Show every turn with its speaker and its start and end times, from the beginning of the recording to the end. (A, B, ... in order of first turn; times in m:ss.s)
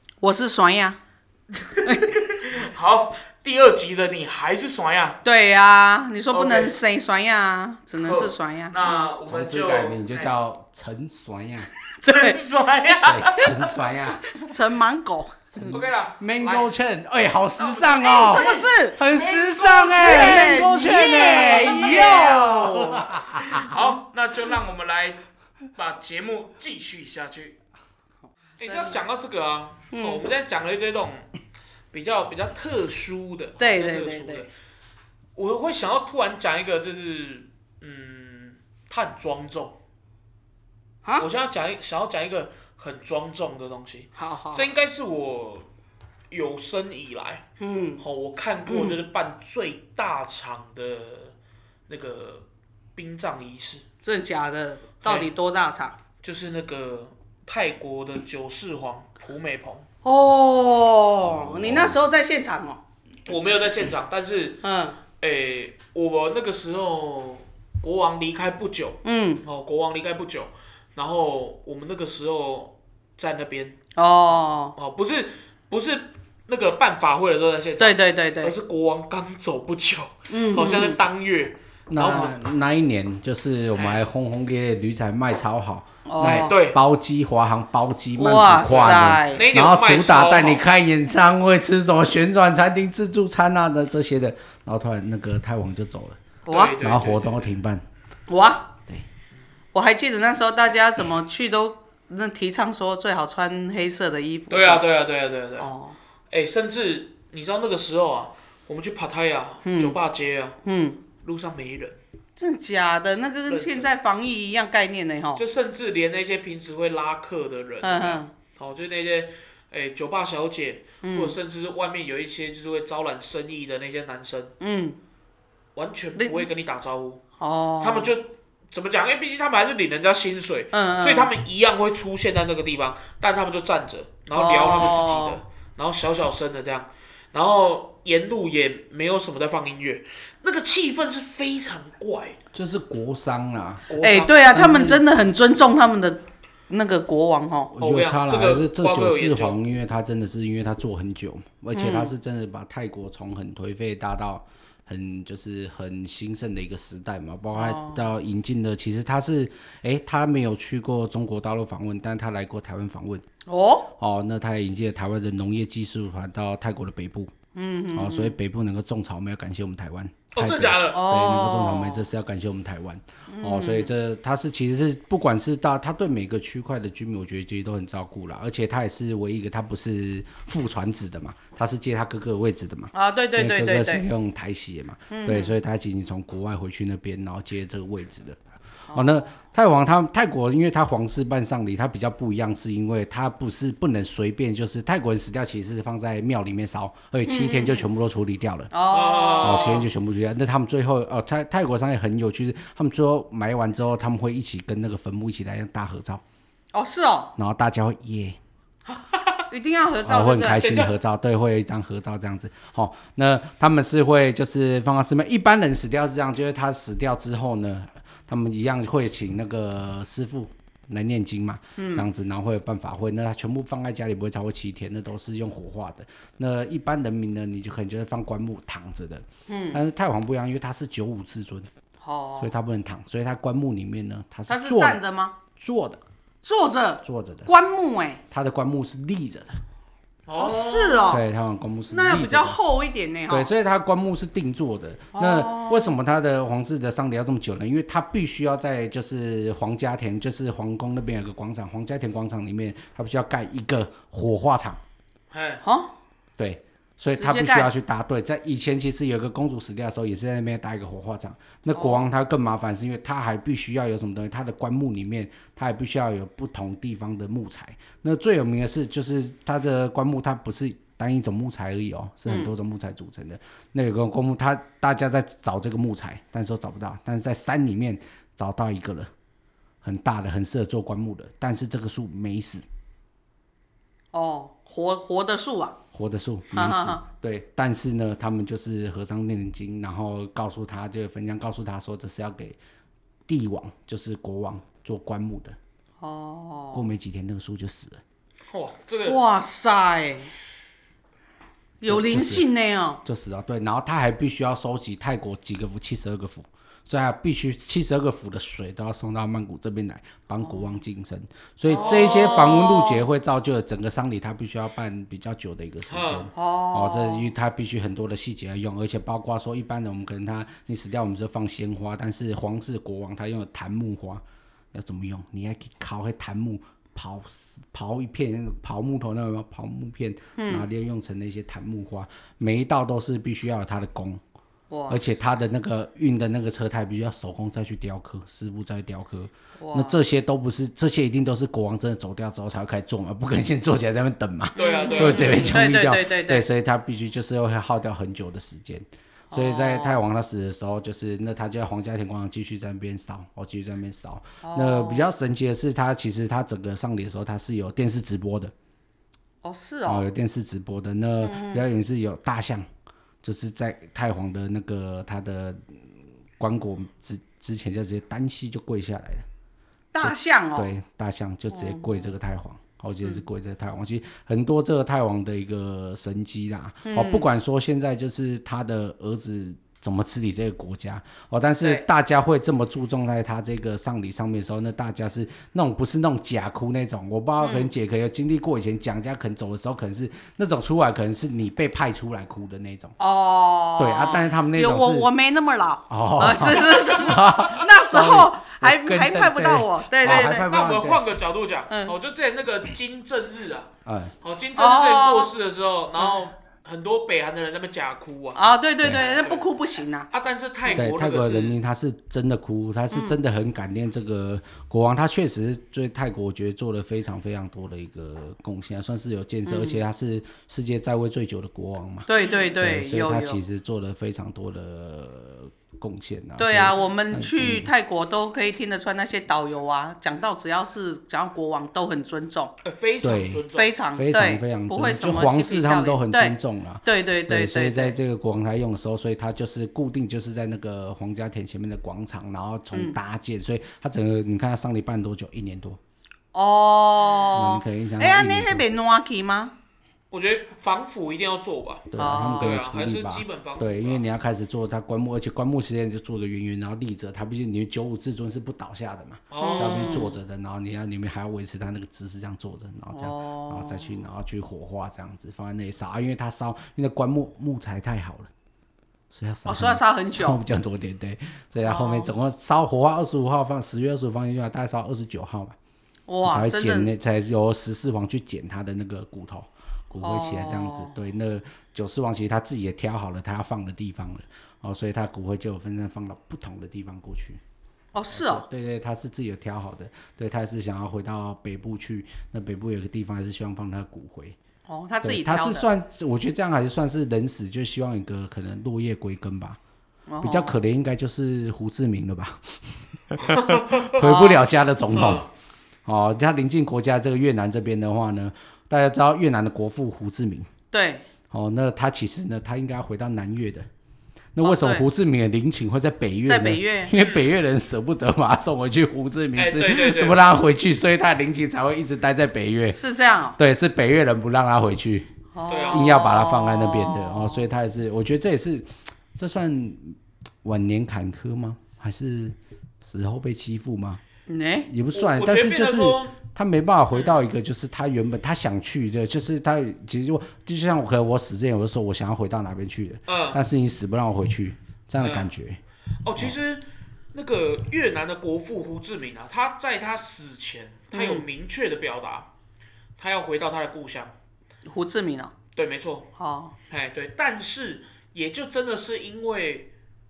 0:00.2-0:01.0 A
0:01.6-0:05.2 B
0:05.2-0:09.1 A
0:06.3-0:06.8 B
0:08.0-0:10.3 B
0:09.3-0:11.7 C
0:11.9-0:13.8 B
0:12.0-0:12.4 A
0:13.0-0:14.4 C
0:14.5-0:15.8 A
0:15.5-0:23.8 C
0:15.6-0:16.7 B
0:17.6-0:22.4 B
0:18.0-0:19.0 A
0:20.0-0:23.1 A
0:23.6-0:25.2 B
0:25.8-0:27.6 B
0:28.6-0:31.3 B
0:28.6-0:29.0 A
0:29.9-0:30.2 A
0:31.9-0:34.5 B
0:33.6-0:34.4 A
0:35.4-0:39.8 B
0:41.2-0:45.7 B
0:44.2-0:44.7 A
0:46.3-0:47.5 B
0:47.6-0:48.0 A
0:48.0-0:51.4 B
0:48.7-0:49.0 A
0:51.9-0:52.4 B
0:53.0-0:53.8 B
0:54.0-0:56.0 A
0:55.0-0:55.3 B
0:56.2-0:59.9 B
1:00.0-1:02.8 A
1:01.2-1:02.0 C
1:03.3-1:04.6 B
1:04.6-1:05.0 A
1:05.2-1:13.8 B
1:09.0-1:09.4 A
1:14.0-1:14.8 A
1:14.8-1:22.4 B
1:17.8-1:18.5 A
1:20.3-1:21.0 A
1:21.9-1:36.2 C
1:23.8-1:24.0 B
1:26.0-1:26.6 A
1:26.2-1:26.8 B
1:28.2-1:29.4 A
1:28.7-1:30.6 B
1:36.5-1:37.5 B
1:36.5-1:36.8 A
1:36.8-1:37.8 C
1:38.3-1:38.7 A
1:39.7-1:44.8 A
1:44.5-1:45.7 B
1:45.6-1:46.0 A
1:46.3-1:50.6 B
1:49.6-1:50.0 A
1:50.6-1:51.0 A
1:51.2-1:52.0 B
1:52.4-1:55.4 A
1:53.5-1:53.9 B
1:55.4-2:04.5 B
1:57.8-1:58.3 A
2:01.0-2:01.4 A
2:04.6-2:05.0 A
2:05.8-2:07.2 B
2:06.2-2:06.5 A
2:07.4-2:08.1 A
2:07.8-2:22.4 B
2:10.7-2:11.3 A
2:14.4-2:15.4 A
2:22.5-2:23.9 C
2:23.9-2:24.6 B
2:24.0-2:27.7 A
2:24.5-2:25.0 C
2:27.8-2:43.2 C
2:27.8-2:29.6 B
2:31.8-2:32.1 A
2:37.5-2:38.0 A
2:43.5-2:43.9 A
2:44.0-2:47.3 C
2:47.5-2:48.4 A
2:47.9-3:08.4 C
2:50.4-2:51.0 B
2:50.9-2:52.1 A
2:53.3-2:53.9 A
3:02.9-3:04.0 A
3:05.1-3:05.6 A
3:08.9-3:09.3 A
3:08.9-3:18.7 C
3:17.3-3:17.8 A
3:18.7-3:19.8 A
3:18.9-3:19.9 B
3:19.4-3:26.2 C
3:26.7-3:27.3 A
3:27.4-3:28.4 C
3:28.9-3:29.4 B
3:29.5-3:30.8 A
3:30.0-3:51.7 C
3:30.6-3:30.9 B
3:41.8-3:42.1 A
3:49.5-3:49.8 A
3:52.0-3:52.5 A
3:52.4-3:55.0 C
3:54.5-3:55.4 A
3:55.6-3:56.0 C
3:56.4-3:58.2 A
3:57.0-3:57.5 C
3:58.3-3:59.6 C
4:00.3-4:01.2 B
4:00.4-4:01.2 A
4:01.1-4:02.6 C
4:01.9-4:03.5 A
4:03.3-4:14.8 C
4:05.1-4:05.9 A
4:15.3-4:15.6 B
4:15.6-4:15.9 A
4:16.4-4:39.1 C
4:17.2-4:17.7 A
4:21.7-4:22.0 A
4:32.3-4:32.5 A
4:39.8-4:42.6 C
4:44.1-4:45.8 A
4:45.9-4:52.6 C
4:46.5-4:47.0 A
4:53.3-4:55.6 C
4:56.0-4:56.9 A
4:56.7-4:58.0 C
4:58.5-4:59.2 B
4:59.1-5:00.3 A
5:01.8-5:03.0 A
5:01.8-5:02.5 C
5:03.0-5:34.2 C
5:11.7-5:13.0 A
5:11.7-5:12.6 B
5:15.9-5:16.3 B
5:16.4-5:17.3 A
5:30.4-5:30.6 A
5:34.7-5:35.2 A
5:34.9-5:58.5 C
5:39.6-5:40.0 A
5:44.6-5:45.6 B
5:44.6-5:46.5 A
5:49.3-5:50.0 A
5:54.4-5:55.1 A
5:59.4-6:00.1 A
5:59.9-6:02.7 C
6:01.2-6:01.6 A
6:03.2-6:05.8 C
6:06.4-6:09.3 C
6:09.9-6:10.7 A
6:10.0-6:33.0 C
6:11.5-6:12.0 A
6:16.9-6:17.3 A
6:27.4-6:27.7 A
6:33.0-6:40.5 A
6:33.8-6:35.1 C
6:35.9-6:41.0 C
6:36.7-6:37.2 B
6:40.0-6:48.4 B
6:43.8-6:44.2 C
6:44.6-6:45.3 A
6:48.4-6:50.1 A
6:49.0-6:49.4 B
6:50.1-6:51.6 B
6:50.7-7:02.1 C
6:52.9-6:53.2 A
6:59.5-6:59.8 A
7:02.1-7:03.4 A
7:02.6-7:07.7 C
7:06.4-7:12.5 A
7:12.6-7:13.8 B
7:13.0-7:25.8 C
7:13.5-7:18.0 A
7:26.3-7:29.5 A
7:27.3-7:28.6 C
7:30.1-7:34.0 B
7:31.9-7:48.3 C
7:32.0-7:32.6 A
7:39.3-7:40.0 B
7:39.4-7:40.2 A
7:42.9-7:43.9 A
7:49.1-7:55.6 C
7:49.5-7:50.4 A
7:51.7-7:52.1 A
7:56.1-7:56.9 A
7:56.2-8:07.4 C
8:00.0-8:01.0 A
8:07.9-8:08.4 A
8:08.1-8:14.4 C
8:14.7-8:15.7 A
8:15.0-8:19.6 C
8:20.1-8:20.6 A
8:20.2-8:25.3 C
8:23.3-8:23.9 B
8:24.0-8:24.5 A
8:25.0-8:25.2 B
8:25.8-8:30.5 C
8:30.7-8:31.1 A
8:31.3-8:33.7 C
8:34.4-8:42.8 C
8:34.4-8:34.9 A
8:36.3-8:37.0 A
8:37.0-8:37.3 B
8:39.4-8:40.2 B
8:42.7-8:43.4 A
8:43.4-8:45.1 C
8:45.4-8:47.5 A
8:45.5-8:46.1 B
8:45.7-8:54.0 C
8:54.3-8:54.7 A
8:54.7-9:05.6 C
8:54.9-8:56.2 B
8:56.9-8:57.2 B
9:03.1-9:03.4 B
9:05.0-9:05.3 B
9:06.0-9:12.3 B
9:10.9-9:11.3 A
9:13.0-9:14.2 B
9:14.7-9:15.3 A
9:15.6-9:16.1 B
9:16.2-9:16.5 A
9:16.7-9:19.7 B